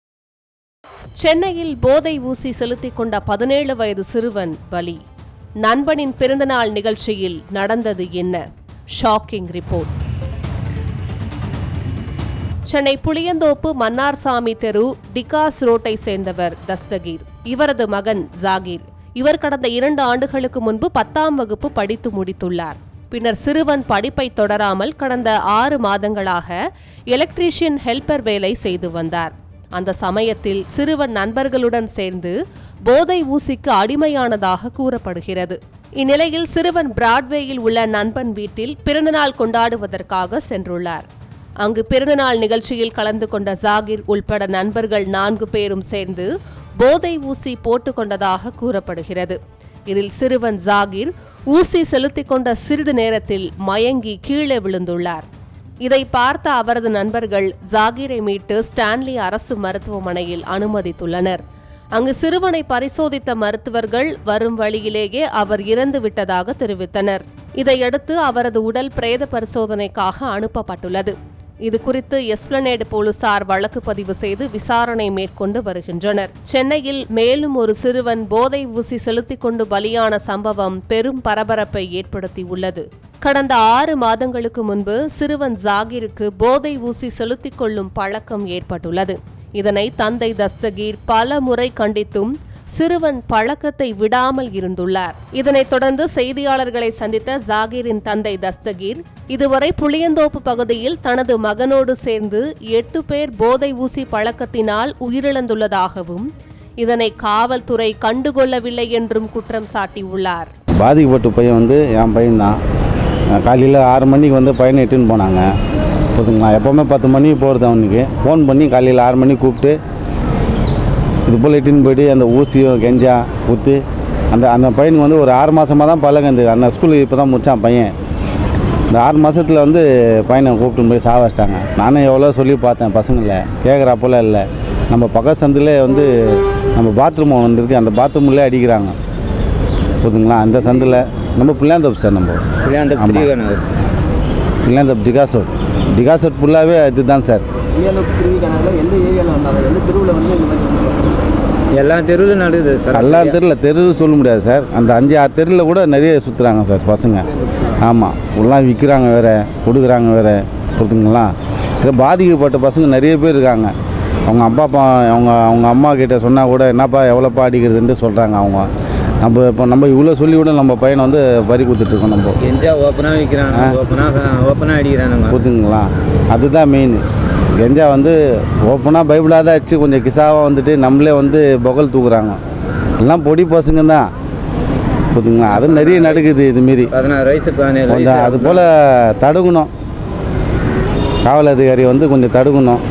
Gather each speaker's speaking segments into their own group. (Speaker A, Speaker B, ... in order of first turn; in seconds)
Speaker A: 1.2-5.0, 5.6-9.9, 12.7-26.6, 27.1-32.3, 32.9-41.0, 41.6-49.4, 49.9-55.2, 55.8-61.4, 61.9-71.1, 71.6-106.3, 106.8-110.5
Speaker B: 110.8-112.6, 113.3-115.5, 116.1-119.8, 121.2-127.9, 128.9-138.9, 140.0-143.3, 144.6-147.4, 152.9-157.3, 157.8-163.7, 164.2-168.7, 169.2-172.4, 173.5-173.8, 175.3-177.0, 177.6-182.4, 183.0-184.1, 185.1-186.9, 187.9-189.7, 191.2-192.8
Speaker C: 142.6-143.7, 151.7-153.4, 172.4-175.4, 185.4-186.3, 186.9-188.6
Speaker D: 147.8-151.0